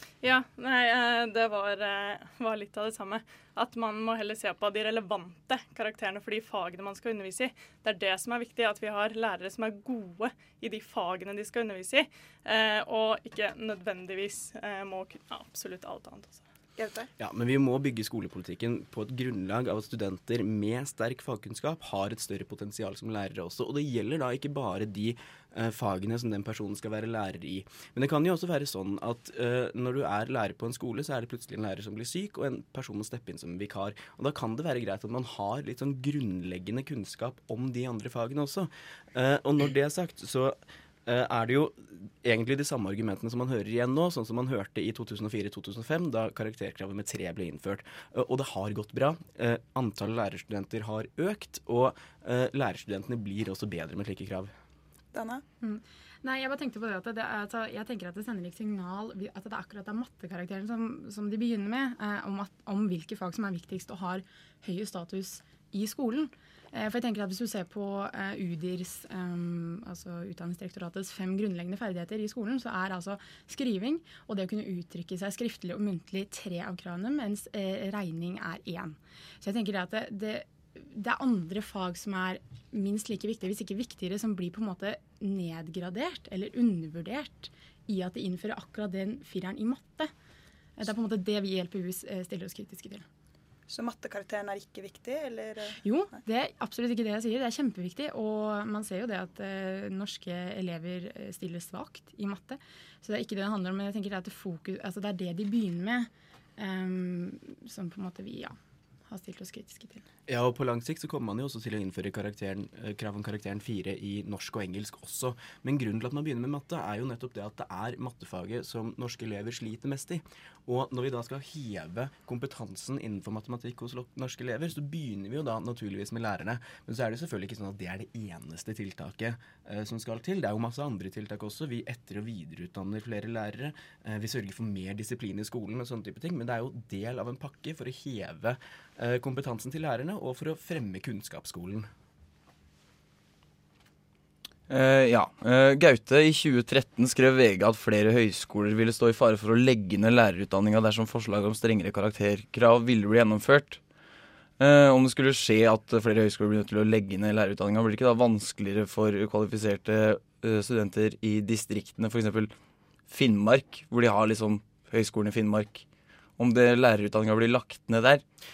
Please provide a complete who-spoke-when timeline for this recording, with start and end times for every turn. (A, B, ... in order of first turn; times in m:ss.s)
0:00.2-0:16.4 A
0:16.8-0:17.1 B
0:17.2-0:54.5 C
0:55.1-0:55.4 B
0:55.6-1:30.1 D
1:30.8-1:33.0 D
1:33.7-1:35.8 B
1:35.8-1:48.6 D
1:49.1-1:50.0 D
1:50.3-2:21.9 C
2:24.7-2:33.8 E
2:34.6-2:42.5 E
2:43.1-2:45.8 E
2:46.4-2:48.2 E